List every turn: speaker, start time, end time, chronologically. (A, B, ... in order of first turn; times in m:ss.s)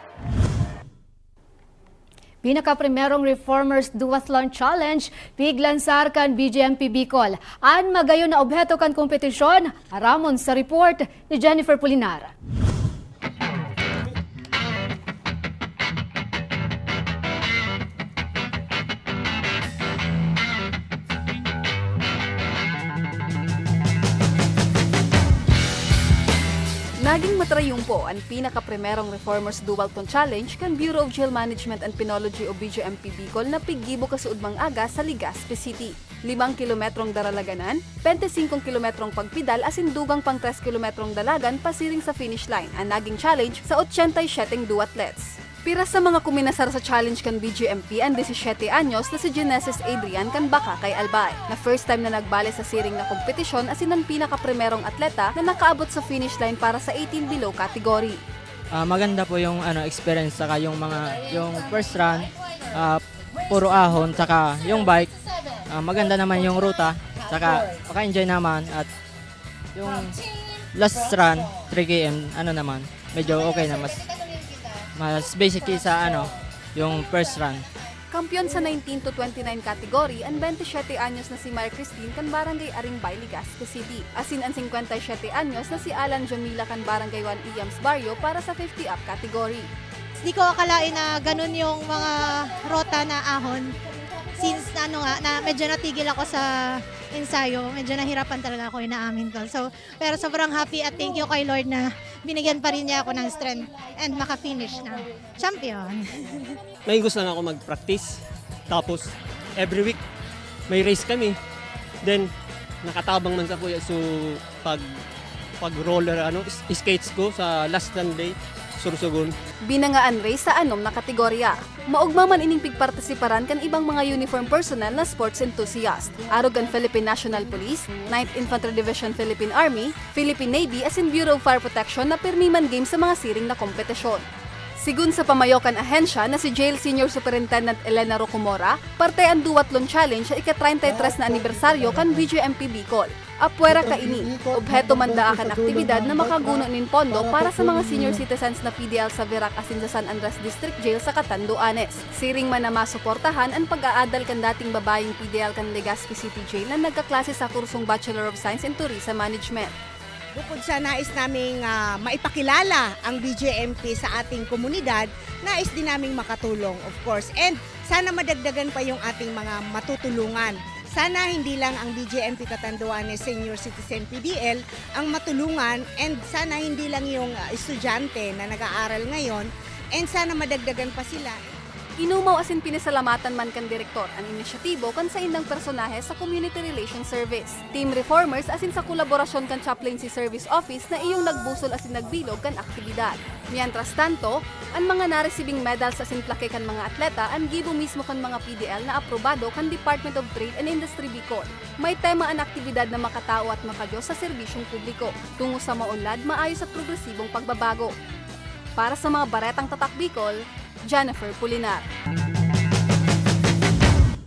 0:02.4-0:12.3 A
0:27.0-0:58.2 B
0:58.7-1:05.1 C
1:05.7-1:08.9 C
1:09.8-1:10.2 C
1:10.7-1:14.0 C
1:15.0-1:17.6 C
1:18.1-1:29.7 B
1:30.2-1:33.7 D
1:34.4-1:36.5 D
1:37.1-1:46.0 D
1:46.9-1:47.8 E
1:49.6-1:49.9 E
1:52.9-1:53.7 E
1:56.5-1:57.4 E
1:59.7-2:14.2 B
2:14.8-2:39.7 B
2:40.3-3:01.4 F
3:02.0-3:27.9 B
3:28.8-3:31.8 B